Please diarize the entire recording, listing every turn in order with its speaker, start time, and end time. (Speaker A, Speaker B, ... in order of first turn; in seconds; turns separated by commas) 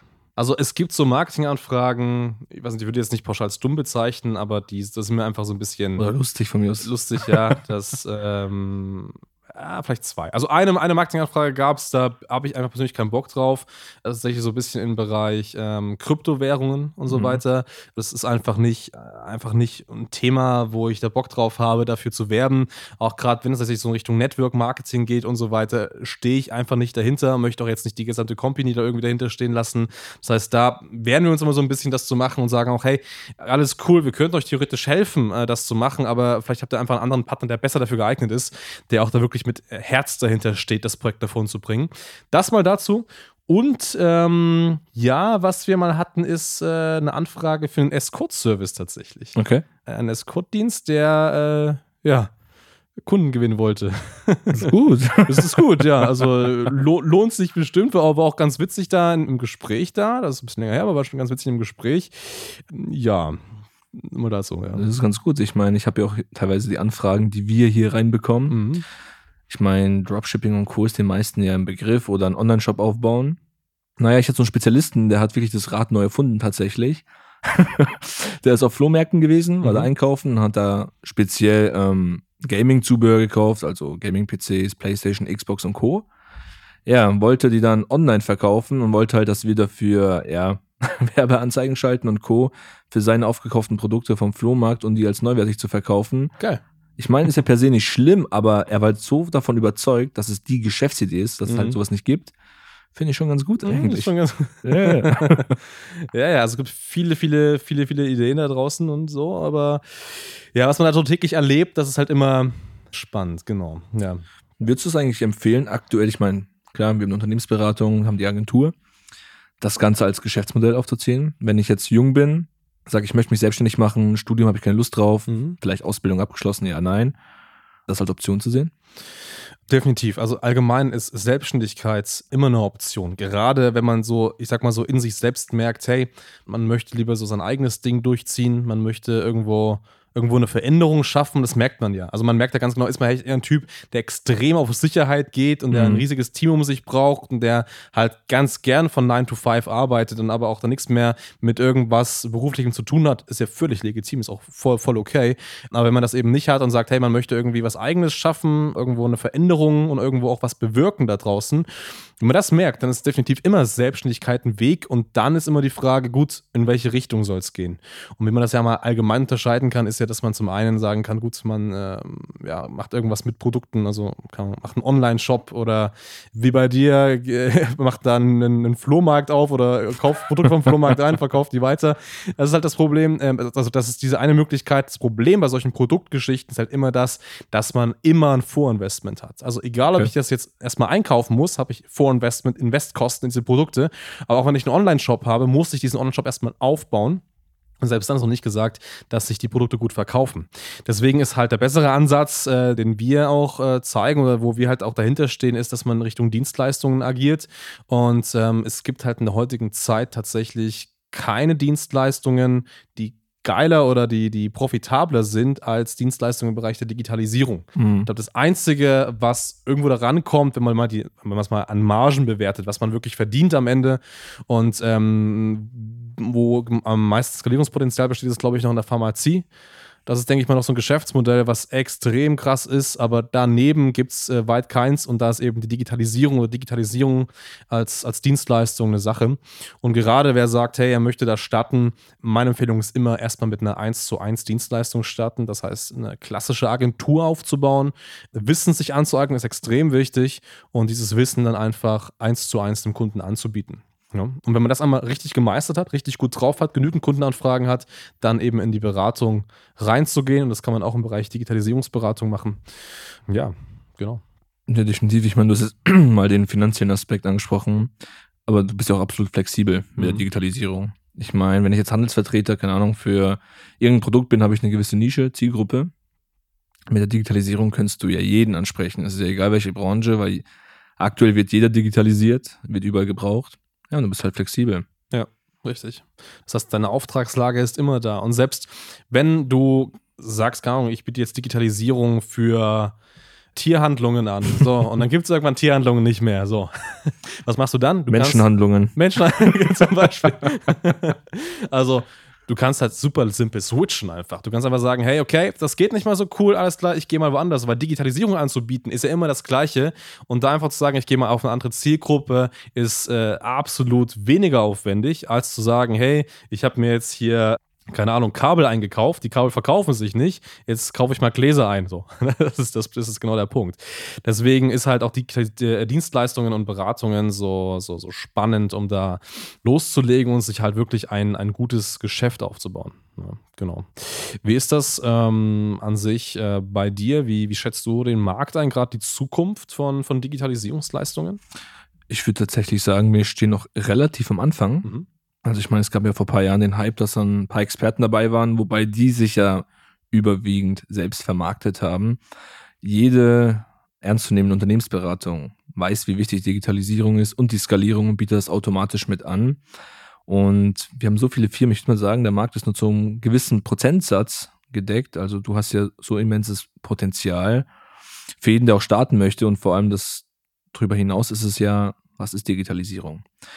Speaker A: 0.4-6.1, Speaker B: 6.0-7.6, Speaker A: 6.8-52.3, Speaker B: 17.1-17.4, Speaker B: 49.4-49.6, Speaker A: 53.0-54.7, Speaker B: 54.5-56.4, Speaker A: 55.2-64.8, Speaker B: 64.8-68.6, Speaker A: 68.5-68.8, Speaker B: 69.5-73.4, Speaker B: 74.0-86.1, Speaker A: 79.6-79.9, Speaker B: 86.9-96.3, Speaker B: 97.0-102.3, Speaker A: 101.5-101.8, Speaker B: 103.0-105.6, Speaker A: 103.6-114.2, Speaker B: 114.6-118.8, Speaker B: 119.6-127.2, Speaker A: 125.3-125.6, Speaker B: 127.9-128.7, Speaker A: 129.7-161.7, Speaker B: 145.7-146.1, Speaker A: 162.2-197.2, Speaker A: 197.8-229.5, Speaker B: 217.8-218.1, Speaker A: 230.1-262.6, Speaker A: 263.3-264.2, Speaker B: 264.7-267.9, Speaker B: 268.5-275.9, Speaker A: 270.0-270.2, Speaker B: 276.9-280.4, Speaker B: 281.0-284.9, Speaker A: 285.1-293.0, Speaker A: 293.6-341.4, Speaker B: 298.1-299.0, Speaker B: 342.1-344.9, Speaker B: 345.4-352.2, Speaker B: 352.8-359.6, Speaker B: 360.3-367.7, Speaker B: 368.4-373.3